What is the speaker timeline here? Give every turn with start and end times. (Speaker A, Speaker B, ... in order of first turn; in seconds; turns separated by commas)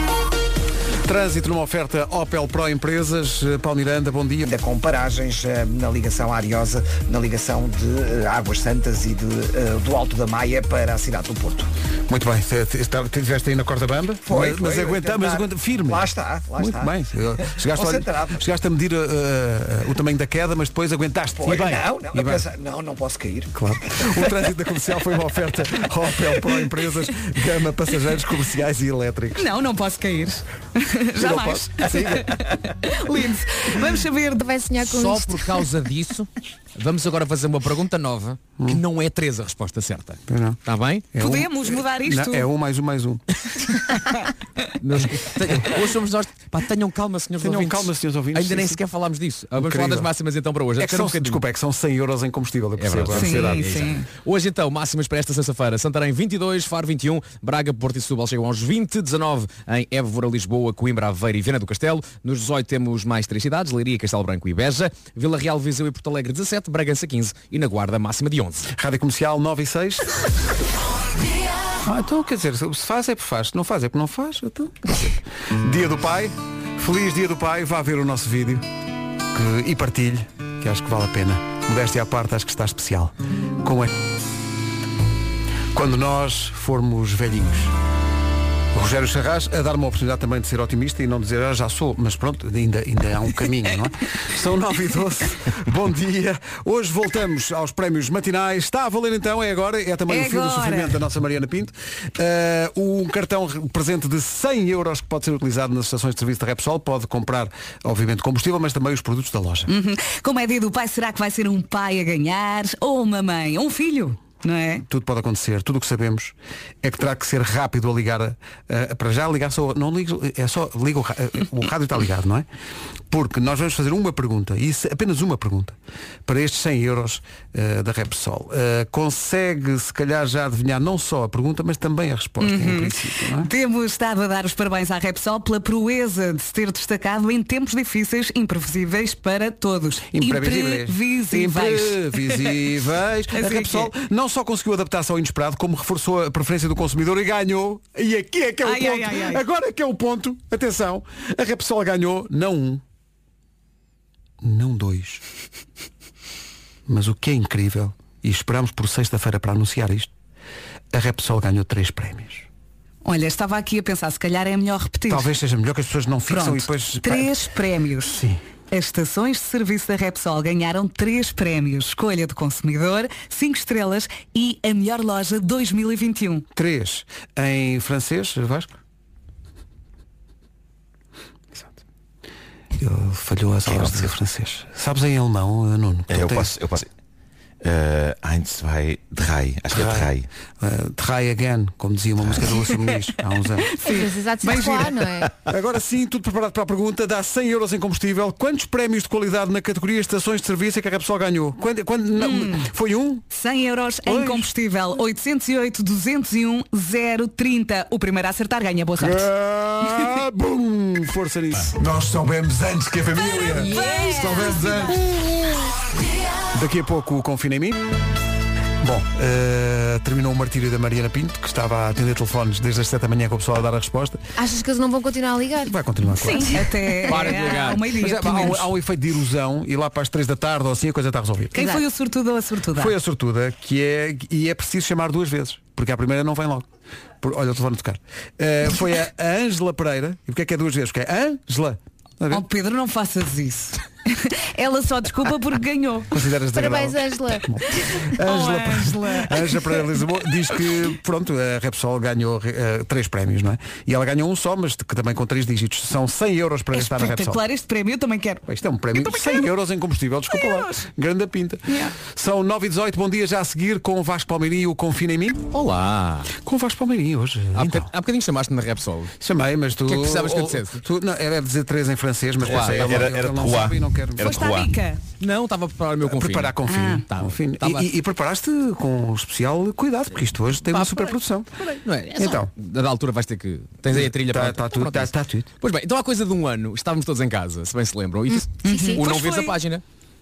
Speaker A: 1.0-4.4, Speaker B: 4.4-11.7, Speaker A: 12.1-22.4, Speaker B: 14.2-16.9, Speaker B: 17.6-18.4, Speaker B: 21.4-23.5, Speaker A: 23.5-29.5, Speaker C: 29.4-34.4, Speaker A: 31.2-32.3, Speaker D: 34.4-35.6, Speaker E: 34.8-41.1, Speaker A: 40.3-40.6, Speaker A: 41.1-43.2, Speaker C: 41.2-42.5, Speaker E: 44.8-51.4, Speaker A: 47.4-48.8, Speaker A: 49.6-50.1, Speaker A: 50.8-53.7, Speaker E: 52.8-68.7, Speaker C: 53.1-54.1, Speaker A: 68.8-70.1, Speaker A: 71.8-78.6, Speaker A: 79.3-83.9, Speaker A: 85.7-87.7, Speaker A: 88.7-109.7, Speaker C: 100.1-101.0, Speaker C: 109.7-114.8, Speaker A: 114.8-122.5, Speaker A: 123.1-133.5, Speaker C: 132.4-142.6, Speaker A: 140.1-152.8, Speaker C: 143.3-143.9, Speaker C: 148.6-149.4, Speaker A: 154.4-155.2, Speaker A: 156.9-160.1, Speaker A: 160.9-162.5, Speaker C: 163.0-165.3, Speaker A: 165.1-167.3, Speaker C: 166.3-168.2, Speaker A: 168.0-168.4, Speaker C: 168.7-176.4, Speaker A: 176.5-178.8, Speaker A: 181.5-181.8, Speaker A: 182.8-186.5, Speaker F: 186.1-186.9, Speaker F: 187.6-190.3, Speaker A: 189.7-193.7, Speaker C: 193.7-195.0, Speaker D: 193.8-195.3, Speaker A: 195.5-203.2, Speaker C: 202.2-202.6, Speaker C: 203.3-209.3, Speaker A: 204.0-204.4, Speaker A: 209.0-215.0, Speaker C: 213.6-214.9, Speaker A: 216.5-217.8, Speaker A: 218.8-224.2, Speaker D: 224.4-225.7, Speaker A: 225.6-231.7, Speaker C: 226.2-228.7, Speaker E: 227.1-227.9, Speaker C: 231.5-232.9, Speaker A: 232.7-236.7, Speaker A: 237.2-242.4, Speaker C: 242.3-246.1, Speaker A: 246.1-257.4, Speaker D: 246.5-247.5, Speaker C: 248.2-249.5, Speaker C: 256.7-258.4, Speaker A: 258.5-265.4, Speaker C: 259.0-259.4, Speaker C: 260.3-260.7, Speaker E: 265.5-266.3, Speaker A: 266.4-267.9, Speaker E: 267.6-269.1, Speaker A: 269.2-274.3, Speaker E: 269.8-270.8, Speaker E: 272.4-273.1, Speaker F: 272.5-274.7, Speaker C: 274.2-275.0, Speaker E: 275.2-277.9, Speaker A: 276.0-281.5, Speaker C: 276.6-277.0, Speaker E: 280.7-289.8, Speaker A: 282.2-282.5, Speaker A: 283.9-285.5, Speaker C: 288.6-289.5, Speaker D: 288.6-289.0